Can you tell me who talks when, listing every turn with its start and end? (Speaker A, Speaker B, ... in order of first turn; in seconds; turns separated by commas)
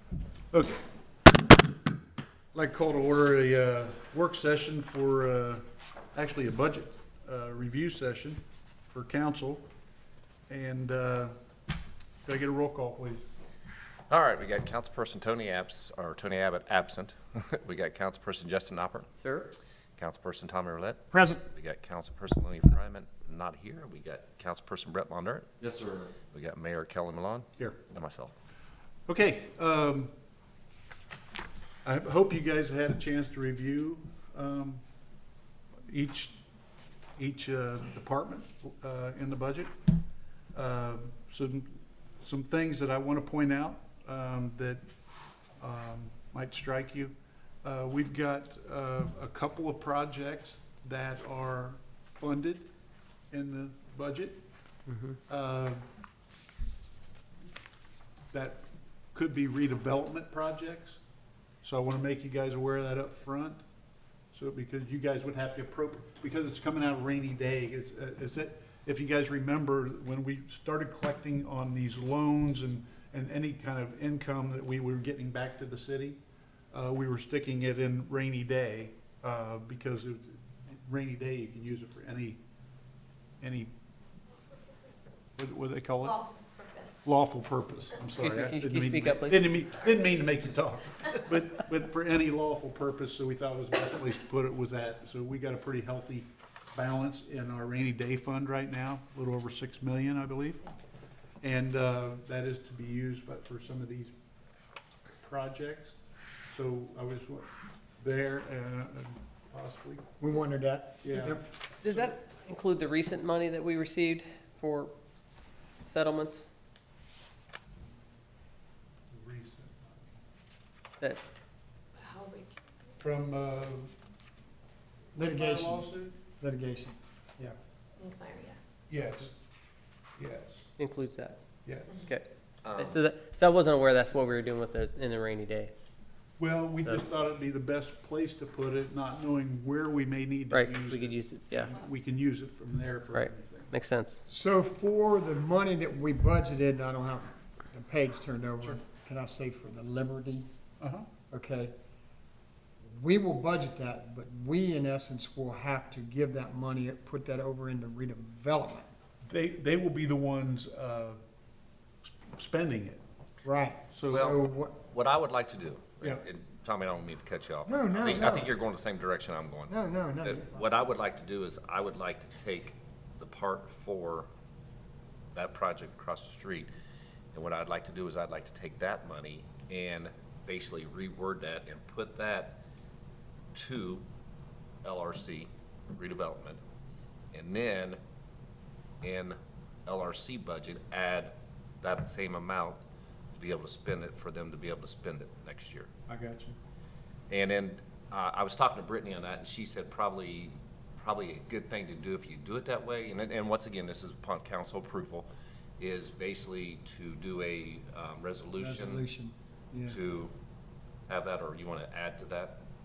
Speaker A: 0.5-0.8, Speaker A: 2.5-9.7, Speaker A: 10.5-11.3, Speaker A: 12.2-13.2, Speaker B: 14.1-19.1, Speaker C: 19.2-19.5, Speaker B: 20.0-28.3, Speaker D: 21.1-21.5, Speaker A: 29.1-30.1, Speaker A: 31.8-34.8, Speaker A: 35.9-36.4, Speaker A: 37.2-39.7, Speaker A: 40.5-44.9, Speaker A: 45.6-52.7, Speaker A: 53.3-54.4, Speaker C: 54.9-55.2, Speaker A: 55.3-55.9, Speaker A: 58.3-61.0, Speaker A: 61.6-63.6, Speaker A: 64.3-76.2, Speaker A: 76.7-82.4, Speaker A: 83.4-83.7, Speaker A: 85.4-86.2, Speaker E: 86.0-87.0, Speaker A: 87.0-100.7, Speaker C: 88.2-89.5, Speaker A: 101.4-104.1, Speaker A: 105.2-106.0, Speaker A: 106.5-110.0, Speaker D: 110.2-111.5, Speaker A: 111.0-112.1, Speaker C: 111.8-114.9, Speaker C: 115.8-116.5, Speaker A: 119.1-120.1, Speaker E: 122.0-122.7, Speaker A: 123.0-123.9, Speaker D: 125.1-127.6, Speaker A: 125.2-126.2, Speaker E: 128.0-128.6, Speaker A: 128.9-129.4, Speaker A: 130.2-130.7, Speaker C: 130.8-131.4, Speaker A: 131.7-132.0, Speaker C: 132.0-135.7, Speaker B: 132.6-133.0, Speaker A: 136.4-143.8, Speaker C: 140.5-141.8, Speaker C: 143.1-144.2, Speaker D: 144.3-150.5, Speaker A: 150.8-151.1, Speaker D: 151.3-151.7, Speaker D: 152.9-158.9, Speaker A: 159.3-161.2, Speaker A: 162.0-163.0, Speaker D: 163.4-164.8, Speaker A: 163.9-164.2, Speaker B: 164.1-174.3, Speaker D: 167.7-168.6, Speaker D: 169.7-170.7, Speaker B: 175.3-176.7, Speaker B: 177.3-182.6, Speaker B: 183.5-184.1, Speaker B: 184.8-186.6, Speaker B: 187.3-188.0, Speaker B: 189.0-192.8, Speaker B: 193.4-195.9, Speaker A: 196.1-196.6, Speaker B: 197.3-205.3, Speaker B: 205.8-209.0, Speaker D: 208.6-210.0, Speaker B: 209.9-210.3, Speaker B: 211.1-212.6